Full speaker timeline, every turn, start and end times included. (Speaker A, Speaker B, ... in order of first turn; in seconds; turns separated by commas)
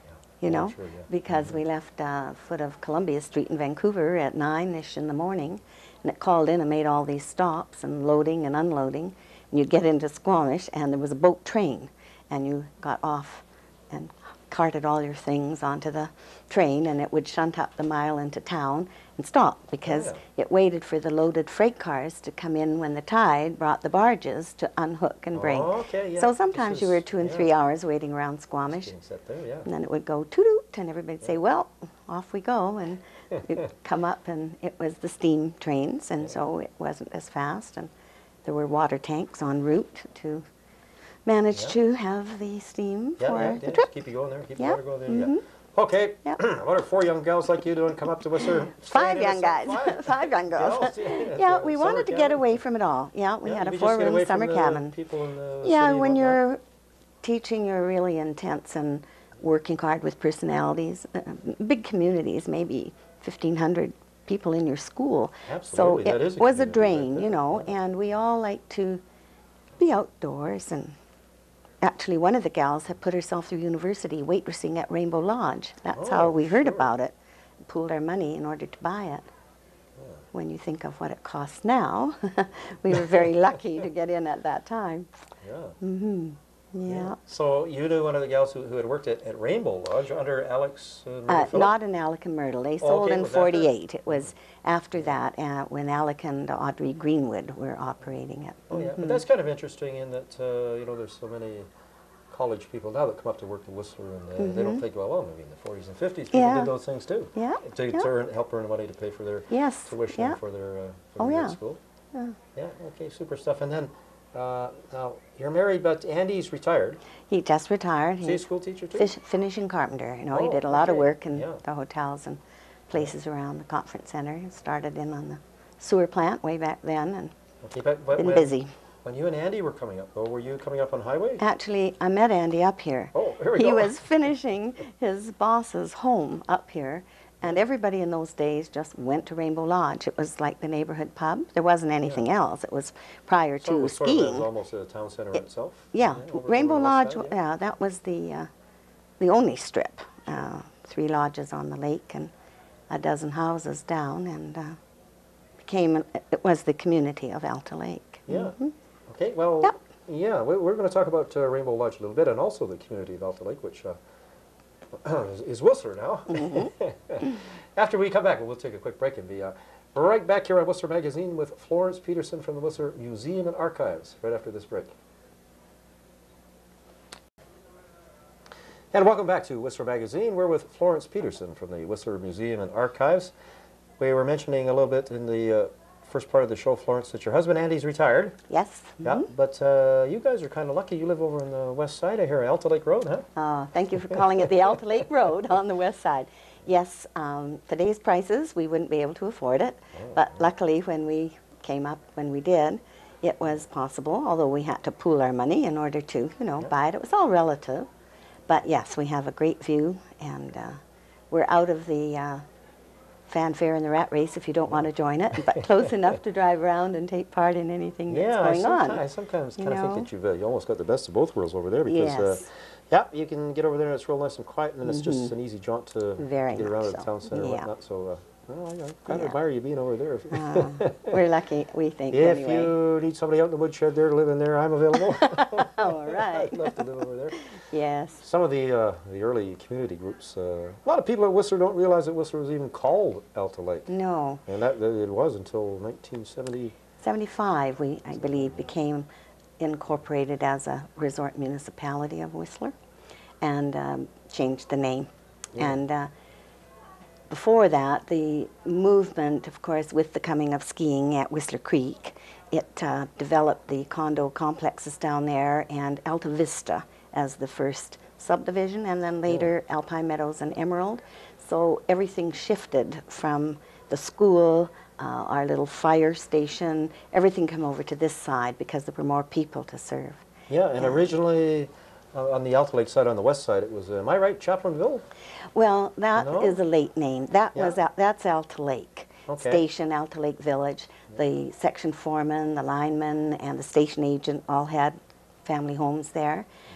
Speaker A: 0.4-28.9, Speaker B: 0.4-1.6, Speaker B: 19.9-20.2, Speaker B: 25.3-27.5, Speaker B: 28.7-29.7, Speaker A: 29.6-37.9, Speaker A: 38.4-40.5, Speaker A: 41.2-43.9, Speaker B: 43.2-52.6, Speaker A: 44.6-45.4, Speaker A: 48.7-54.9, Speaker B: 53.4-56.4, Speaker A: 55.6-56.6, Speaker A: 57.2-69.0, Speaker B: 65.5-67.7, Speaker A: 69.8-71.0, Speaker A: 71.8-77.1, Speaker B: 75.9-76.9, Speaker A: 77.7-79.3, Speaker B: 80.0-80.2, Speaker A: 80.3-85.1, Speaker B: 85.4-85.8, Speaker A: 85.8-87.2, Speaker B: 86.9-91.7, Speaker A: 91.3-99.2, Speaker B: 92.8-94.3, Speaker B: 98.7-101.7, Speaker B: 102.3-111.8, Speaker A: 104.4-104.8, Speaker A: 106.3-106.7, Speaker A: 107.3-108.1, Speaker A: 109.5-110.4, Speaker A: 111.2-111.6, Speaker B: 112.5-117.0, Speaker A: 117.3-118.4, Speaker B: 118.2-119.1, Speaker A: 118.9-127.3, Speaker B: 120.3-121.6, Speaker B: 127.6-131.4, Speaker A: 128.2-128.7, Speaker A: 131.4-144.5, Speaker B: 133.1-133.9, Speaker B: 143.6-147.4, Speaker A: 145.9-148.5, Speaker A: 149.2-152.3, Speaker A: 152.9-154.8, Speaker A: 155.6-158.7, Speaker B: 158.3-158.5, Speaker B: 159.1-164.0, Speaker B: 164.9-174.9, Speaker A: 166.3-166.7, Speaker B: 178.9-183.3, Speaker B: 184.0-188.4, Speaker A: 188.5-189.3, Speaker B: 189.0-193.3, Speaker A: 193.3-207.9, Speaker B: 194.1-194.4, Speaker B: 199.9-200.3, Speaker A: 208.5-210.8, Speaker A: 211.3-212.4, Speaker A: 213.3-219.0, Speaker B: 218.1-231.2, Speaker A: 219.6-220.1, Speaker A: 221.8-222.5, Speaker A: 224.8-225.3, Speaker A: 226.2-227.7, Speaker A: 229.1-229.3, Speaker A: 230.3-232.7, Speaker B: 232.1-237.4, Speaker A: 235.0-238.2, Speaker B: 238.2-243.9, Speaker A: 243.9-244.4, Speaker B: 244.5-246.7, Speaker A: 247.0-249.1, Speaker B: 248.2-248.6, Speaker A: 249.6-252.7, Speaker A: 253.4-256.1, Speaker A: 257.3-281.1, Speaker B: 280.5-285.0, Speaker A: 285.5-296.4, Speaker B: 286.1-286.6, Speaker B: 289.3-289.6